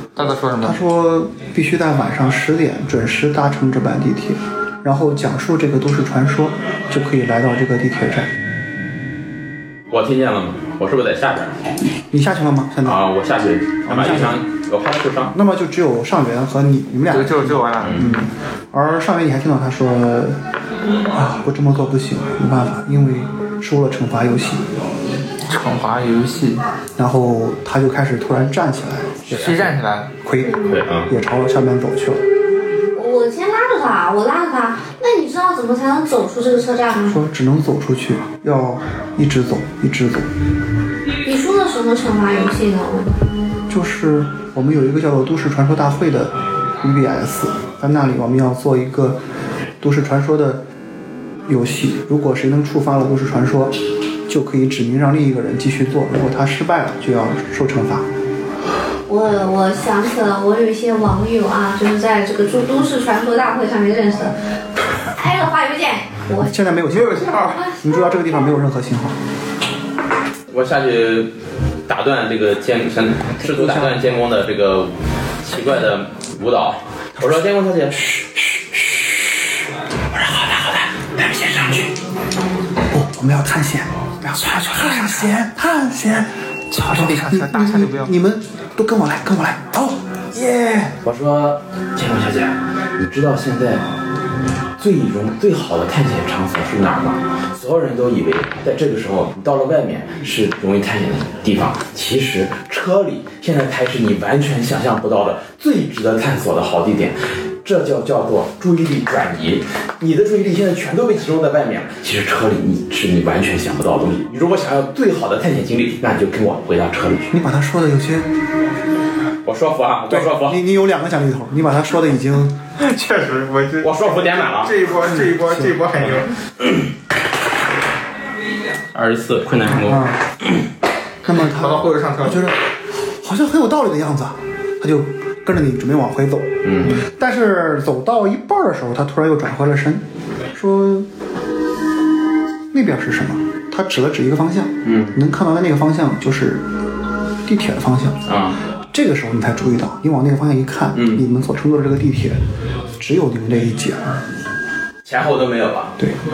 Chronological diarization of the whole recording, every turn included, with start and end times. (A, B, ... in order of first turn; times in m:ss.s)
0:00.2-0:00.8 A
0:00.6-0:08.3 B
0:09.9-0:11.6 C
0:12.1-0:13.0 B
0:12.8-0:15.3 C
0:13.9-0:14.4 B
0:15.3-0:20.4 B
0:17.1-0:18.2 A
0:17.8-0:18.1 C
0:21.1-0:24.6 B
0:25.5-0:26.6 A
0:27.0-0:32.2 B
0:29.3-0:30.1 A
0:30.6-0:31.1 C
0:33.0-0:37.2 D
0:37.1-0:40.3 B
0:41.2-0:43.1 D
0:43.7-0:49.2 B
0:49.8-0:50.6 B
0:51.5-0:58.1 B
0:59.1-1:04.4 D
1:05.0-1:06.6 D
1:06.4-1:09.2 B
1:06.9-1:07.6 A
1:07.2-1:08.6 D
1:10.5-1:11.3 C
1:11.9-1:18.2 C
1:13.4-1:14.0 B
1:18.2-1:18.9 B
1:20.1-1:21.9 C
1:22.9-1:30.9 B
1:24.4-1:25.3 A
1:26.7-1:28.1 A
1:31.0-1:33.8 C
1:34.8-1:57.3 C
1:57.3-1:58.3 B
1:59.5-2:00.6 C
2:00.1-2:02.6 B
2:02.8-2:06.4 A
2:03.8-2:04.8 C
2:05.1-2:05.8 B
2:06.6-2:06.9 C
2:08.9-2:10.6 C
2:09.6-2:10.3 B
2:11.2-2:12.6 B
2:11.3-2:12.5 A
2:13.2-2:21.1 B
2:16.6-2:17.0 C
2:22.7-2:26.7 B
2:24.8-2:25.2 C
2:27.4-2:28.2 B
2:28.3-2:28.6 C
2:28.9-2:32.4 B
2:31.0-2:31.2 C
2:33.0-2:34.2 B
2:35.0-2:36.0 C